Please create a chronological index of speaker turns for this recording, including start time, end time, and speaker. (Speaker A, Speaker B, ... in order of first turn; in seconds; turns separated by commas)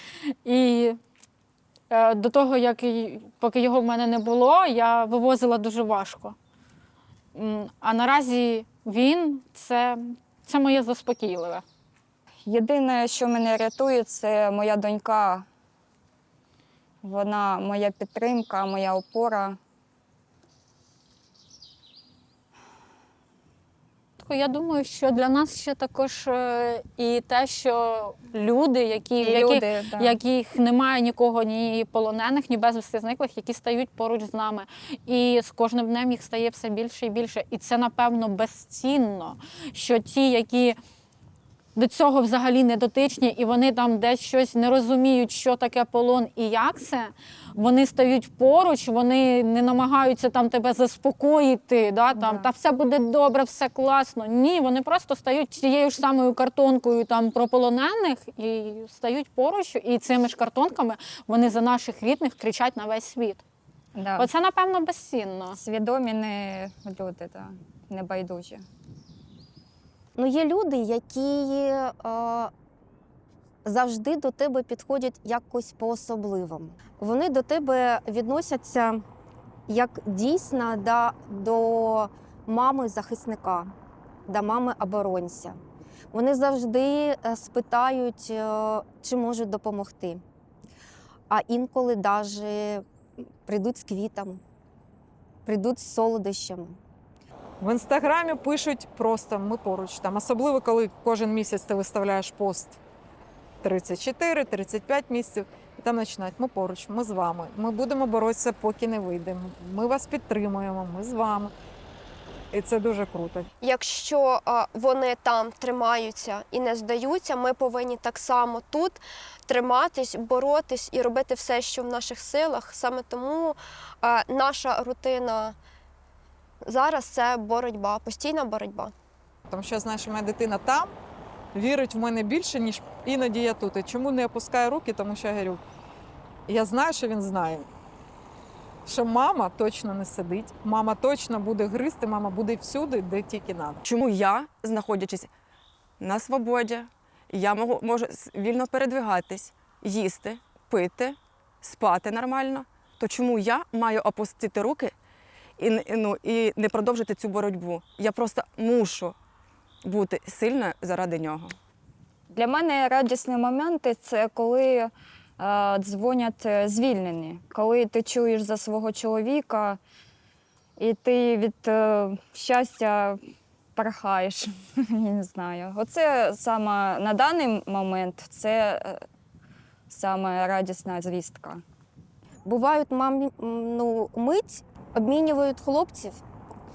Speaker A: 0.4-1.0, Speaker A: 1.9-6.4, Speaker A: 7.3-11.6, Speaker B: 12.4-15.4, Speaker B: 17.0-19.6, Speaker A: 24.2-40.8, Speaker B: 29.2-30.2, Speaker A: 41.8-63.4, Speaker B: 52.1-52.5, Speaker B: 63.9-64.3, Speaker A: 64.2-65.6, Speaker B: 65.5-68.7, Speaker C: 70.2-72.5, Speaker C: 73.6-79.0, Speaker C: 79.7-83.7, Speaker C: 84.3-85.6, Speaker C: 86.1-90.2, Speaker C: 91.3-92.8, Speaker C: 93.4-94.4, Speaker C: 95.4-96.8, Speaker D: 97.6-102.8, Speaker D: 103.6-111.5, Speaker D: 112.5-113.5, Speaker E: 113.6-125.6, Speaker E: 126.6-128.9, Speaker D: 129.5-130.9, Speaker D: 131.5-135.6, Speaker D: 136.5-137.7, Speaker D: 138.9-143.8, Speaker F: 143.8-145.3, Speaker F: 146.0-154.9, Speaker F: 155.6-159.1, Speaker F: 159.8-161.6, Speaker B: 162.3-169.8, Speaker B: 170.8-173.2, Speaker B: 173.8-179.0, Speaker B: 179.9-181.6, Speaker C: 182.4-186.2